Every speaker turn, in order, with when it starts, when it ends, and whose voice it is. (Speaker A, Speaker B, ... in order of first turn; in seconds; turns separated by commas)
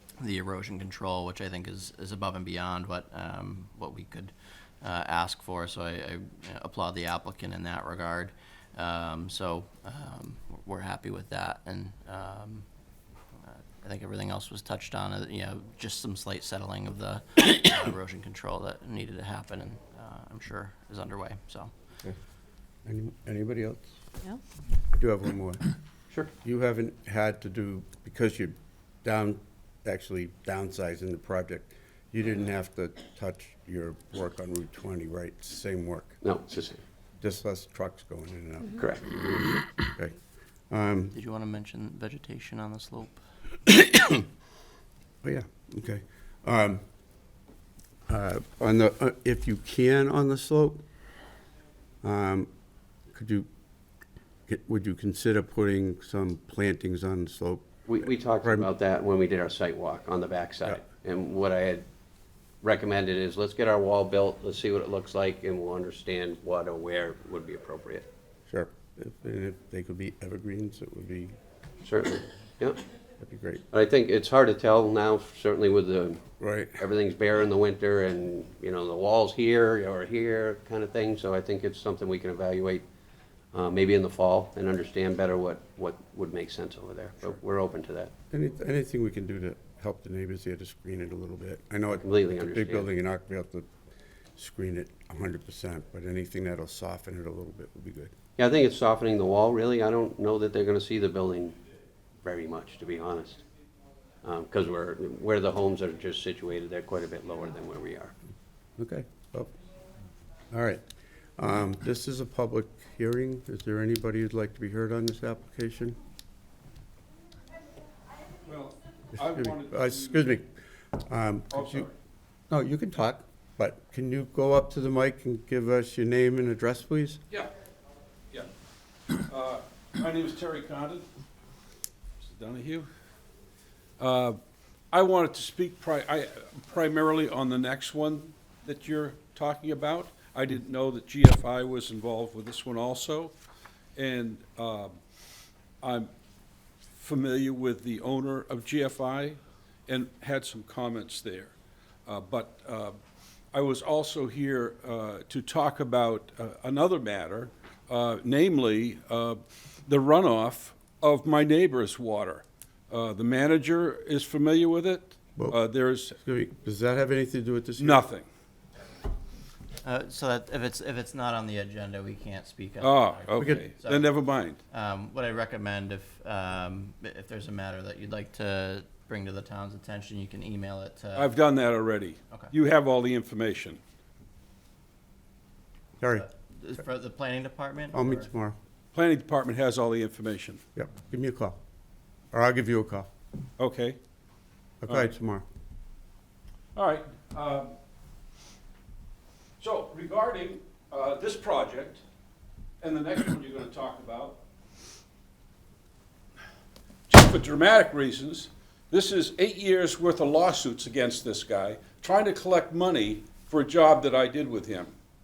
Speaker A: 0.2-12.7, Speaker A: 13.4-21.7, Speaker B: 22.8-23.9, Speaker B: 24.9-25.7, Speaker B: 26.4-36.2, Speaker C: 36.2-36.8, Speaker B: 37.2-39.3, Speaker C: 38.8-39.1, Speaker B: 39.8-40.1, Speaker B: 40.7-41.1, Speaker A: 41.1-43.2, Speaker B: 45.2-46.8, Speaker B: 48.1-50.8, Speaker B: 52.0-52.5, Speaker B: 53.1-53.5, Speaker B: 54.5-57.9, Speaker C: 57.9-61.8, Speaker B: 58.4-58.7, Speaker C: 62.6-68.1, Speaker B: 68.5-71.3, Speaker C: 71.8-72.8, Speaker B: 73.2-73.6, Speaker C: 73.7-76.2, Speaker B: 76.4-76.8, Speaker C: 76.8-82.8, Speaker C: 83.5-88.1, Speaker B: 88.3-93.7, Speaker C: 91.9-92.9, Speaker B: 94.3-98.1, Speaker C: 98.4-101.6, Speaker C: 102.2-103.4, Speaker C: 104.2-108.1, Speaker B: 108.8-109.5, Speaker B: 110.5-110.8, Speaker B: 111.4-116.0, Speaker D: 118.4-120.4, Speaker B: 119.2-121.9, Speaker D: 121.5-121.9, Speaker B: 122.5-127.2, Speaker D: 129.2-131.1, Speaker D: 132.2-132.9, Speaker D: 134.0-134.4, Speaker D: 134.9-143.3, Speaker D: 143.9-144.9, Speaker D: 145.8-146.1, Speaker D: 146.9-151.5, Speaker D: 152.1-153.0, Speaker D: 153.5-166.2, Speaker B: 166.2-168.0, Speaker D: 167.8-168.2, Speaker A: 169.8-174.1, Speaker D: 172.8-174.6, Speaker B: 173.4-173.6, Speaker A: 174.7-181.3, Speaker D: 181.1-183.8, Speaker B: 186.0-186.3, Speaker A: 186.1-188.3, Speaker B: 187.9-188.6, Speaker D: 188.9-190.6, Speaker B: 190.8-191.6, Speaker B: 192.3-193.1, Speaker D: 193.6-194.0, Speaker B: 194.8-195.4, Speaker D: 196.7-197.7, Speaker D: 199.6-202.0, Speaker D: 202.8-204.4, Speaker D: 207.1-214.9